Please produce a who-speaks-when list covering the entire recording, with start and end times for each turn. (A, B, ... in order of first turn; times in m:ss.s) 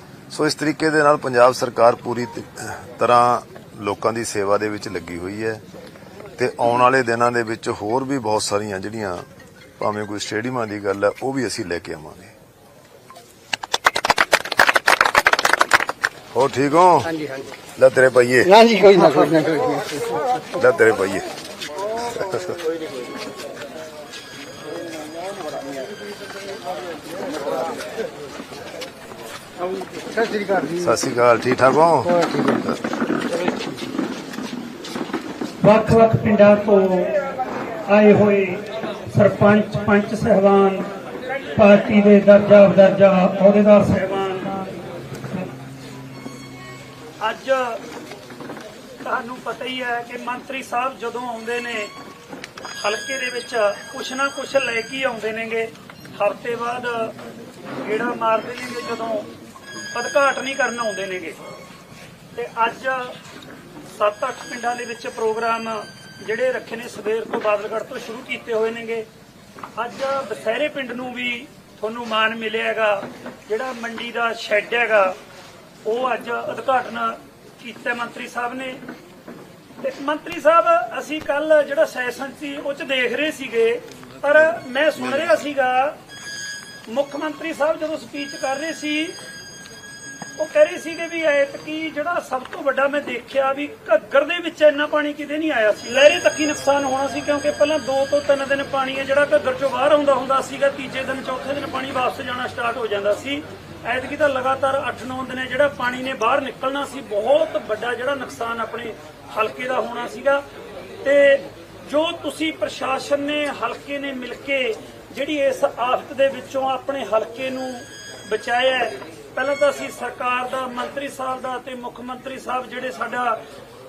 0:00.3-0:05.6 A
0:06.4-0:09.2 A
0:09.8-0:12.3 A
0:16.3-0:17.2 A
0:17.8-0:18.7 A
0:18.6-0:20.0 B
0:20.5-0:21.3 A
0:22.0-0:22.6 A
0:30.1-0:30.8 B
0:30.8-0:32.3 A
0:32.3-0:32.6 B
0:35.6-0:37.2 C
0:37.9-0:40.9 C
0:41.6-0:44.7 C
0:47.2-0:47.8 C
0:49.0-0:51.9 C
0:52.8-0:57.2 C
0:57.8-0:59.3 C
0:59.9-1:01.4 C
1:02.4-1:03.2 C
1:03.9-1:09.1 C
1:09.8-1:15.2 C
1:15.8-1:18.8 C
1:19.8-1:26.0 C
1:26.9-1:29.2 C
1:30.4-1:50.4 C
1:51.0-2:03.4 C